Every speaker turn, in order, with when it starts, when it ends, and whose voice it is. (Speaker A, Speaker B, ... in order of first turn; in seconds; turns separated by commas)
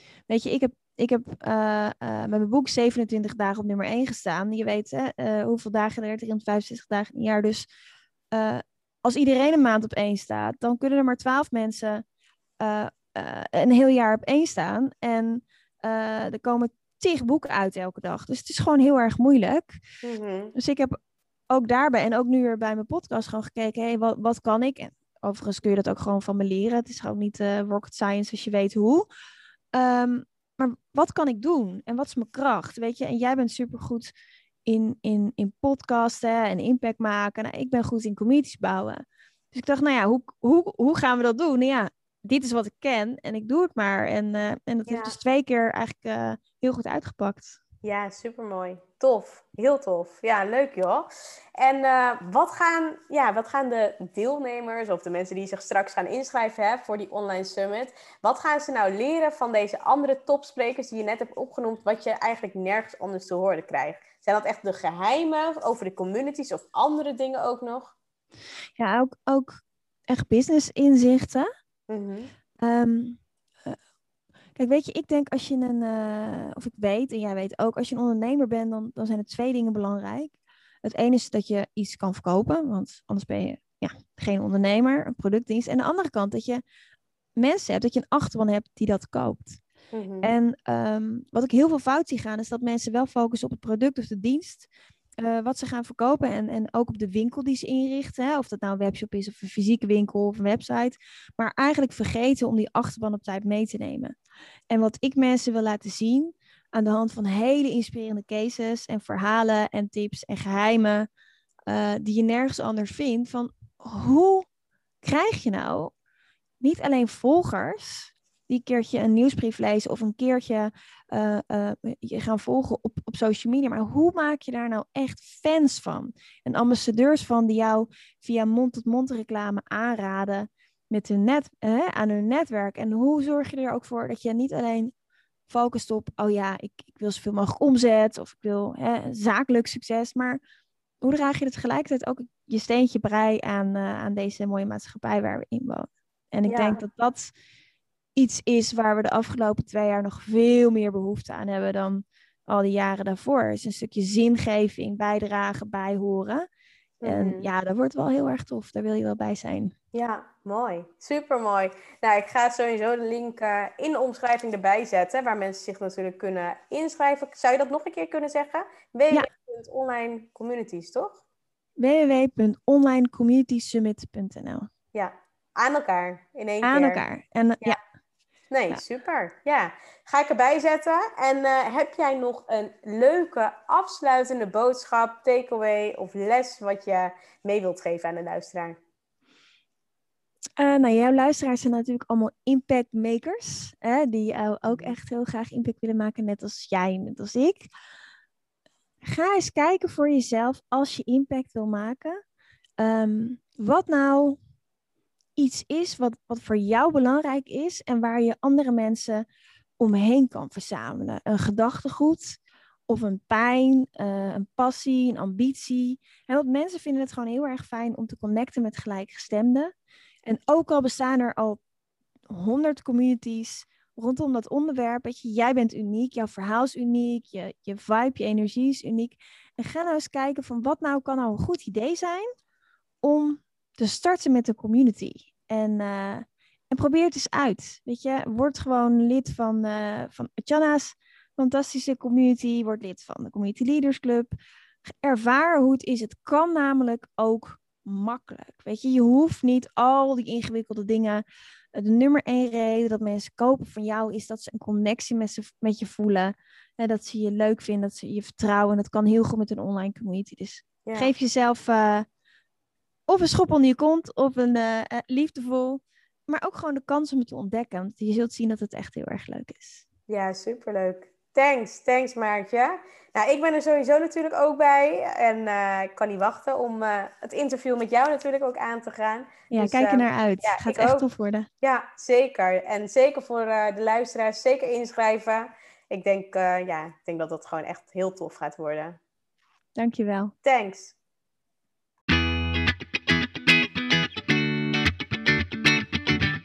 Speaker A: 0.3-7.7, Speaker A: 8.3-12.0, Speaker A: 12.6-19.8, Speaker B: 20.0-20.5, Speaker A: 20.5-20.9, Speaker A: 21.5-29.1, Speaker A: 29.7-34.1, Speaker A: 34.6-47.6, Speaker B: 44.9-45.1, Speaker B: 47.8-67.9, Speaker A: 68.8-71.5, Speaker B: 71.9-72.3, Speaker A: 72.6-73.8, Speaker A: 74.5-86.6, Speaker A: 87.4-89.6, Speaker B: 89.9-90.3, Speaker A: 90.2-94.7, Speaker A: 95.2-104.1, Speaker A: 104.7-111.1, Speaker A: 111.7-114.5, Speaker A: 115.0-115.9, Speaker A: 116.6-134.9, Speaker A: 135.5-140.4, Speaker A: 141.0-147.3, Speaker B: 146.5-146.8, Speaker A: 148.2-156.4, Speaker B: 157.0-157.5, Speaker A: 157.0-159.7, Speaker B: 159.9-171.2, Speaker A: 171.8-174.7, Speaker B: 174.9-177.0, Speaker A: 176.6-177.8, Speaker B: 178.5-188.8, Speaker A: 190.6-197.7, Speaker B: 194.7-194.9, Speaker A: 199.0-202.2, Speaker A: 202.8-204.4, Speaker A: 205.3-209.2, Speaker A: 209.8-219.7, Speaker A: 220.2-221.6, Speaker A: 222.3-232.3, Speaker A: 233.0-244.3, Speaker A: 244.9-262.1, Speaker B: 260.9-261.1, Speaker A: 263.1-269.8, Speaker B: 270.1-281.0, Speaker A: 279.5-281.5, Speaker B: 281.6-289.0, Speaker A: 289.8-290.3, Speaker B: 290.4-290.9